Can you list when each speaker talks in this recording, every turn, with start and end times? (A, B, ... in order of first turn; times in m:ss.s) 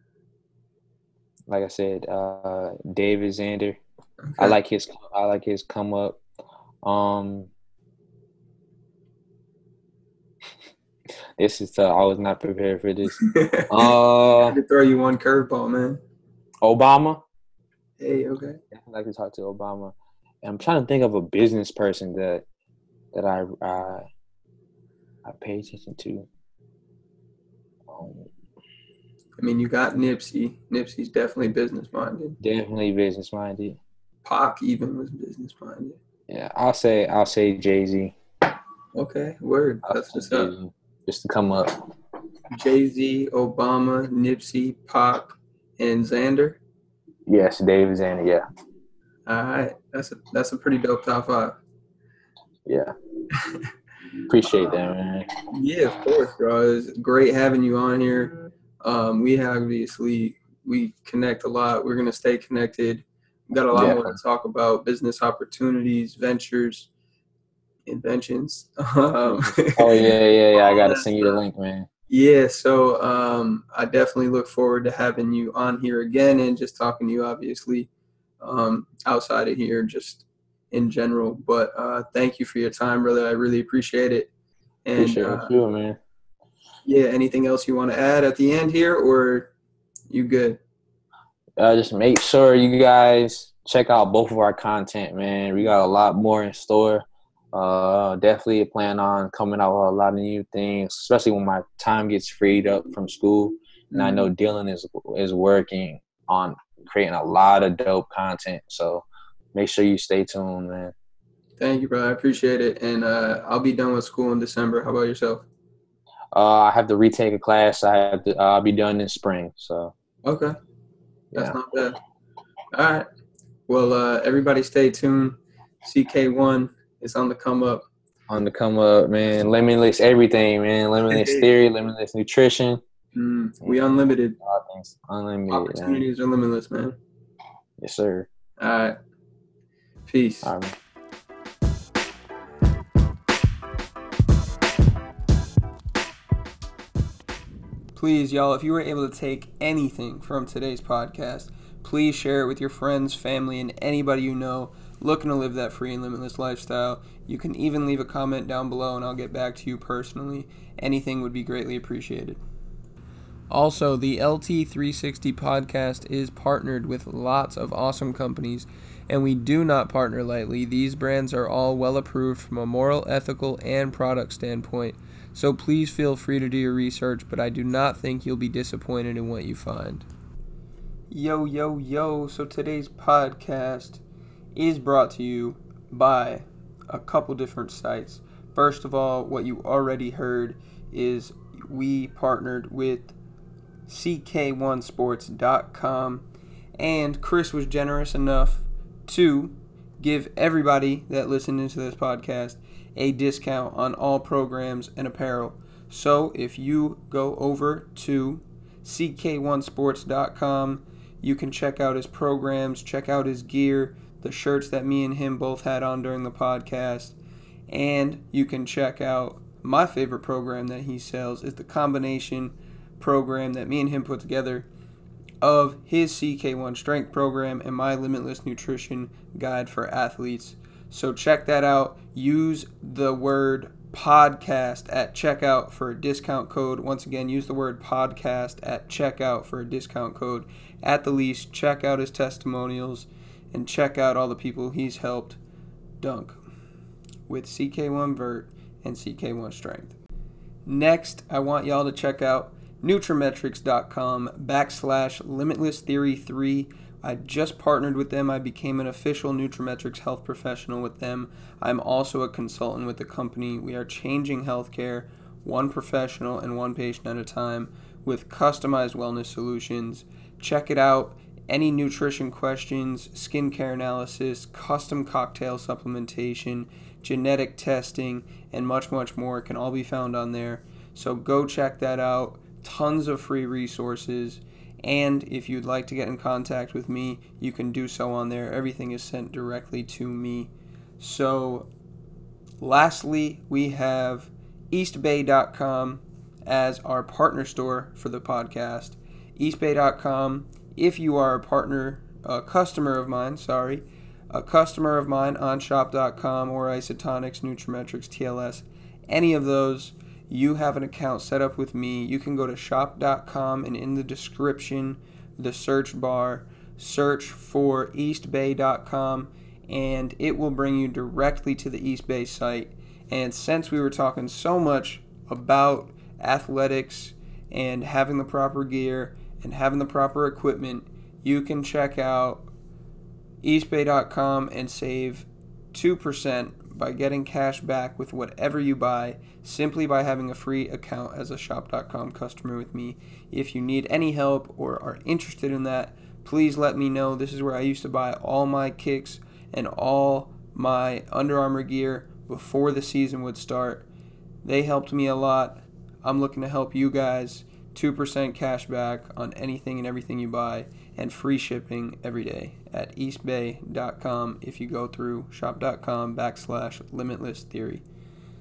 0:01.5-0:03.8 A
0:04.2-0:04.6 B
0:04.4-0:06.2 A
0:06.8-0:07.5 A
0:11.4-0:13.2 A
0:13.1-0:13.9 B
0:13.7-0:14.6 A
0:14.5-0:16.0 B
0:16.6-0:17.2 A
0:18.0-0:18.6 B
0:18.7-0:22.4 A
0:23.1-0:24.0 A
0:25.2-0:26.3 A
0:27.9-0:28.3 A
0:29.4-0:32.4 B
0:32.4-0:33.8 A
0:34.2-0:36.0 B
0:36.3-0:38.2 A
0:38.9-0:40.5 B
0:39.8-0:41.8 A
0:42.5-0:46.6 B
0:47.3-0:48.4 A
0:49.3-0:51.6 B
0:52.6-0:52.9 A
0:53.3-0:53.6 B
0:54.3-0:55.3 A
0:55.5-1:06.9 B
1:03.7-1:04.2 A
1:07.9-1:11.4 B
1:09.4-1:11.9 A
1:12.1-1:17.9 B
1:18.4-1:24.3 B
1:24.8-1:25.5 B
1:25.0-1:26.0 A
1:26.8-1:29.5 B
1:30.1-1:30.6 B
1:31.6-1:50.9 A
1:43.9-1:44.3 B
1:51.6-1:55.4 B
1:56.3-1:59.9 A
2:00.2-2:00.5 B
2:01.3-2:02.0 B
2:02.7-2:03.1 B
2:03.7-2:07.8 B
2:08.3-2:12.8 A
2:11.1-2:11.5 B
2:13.2-2:14.4 B
2:13.6-2:16.0 A
2:15.5-2:17.0 B
2:17.8-2:18.3 A
2:18.6-2:18.9 B
2:20.1-2:20.5 B
2:20.4-2:20.7 A
2:27.9-2:42.4 B
2:43.5-3:00.0 B
3:01.1-3:04.0 B
3:04.5-3:13.1 B
3:13.8-3:16.2 B
3:16.8-3:37.2 B
3:37.7-3:44.7 B
3:45.4-4:05.4 B
4:06.0-4:06.4 B
4:07.3-4:10.0 B
4:10.6-4:51.7 B
4:52.6-5:32.4 B
5:33.4-5:53.8 B
5:54.4-6:07.8 B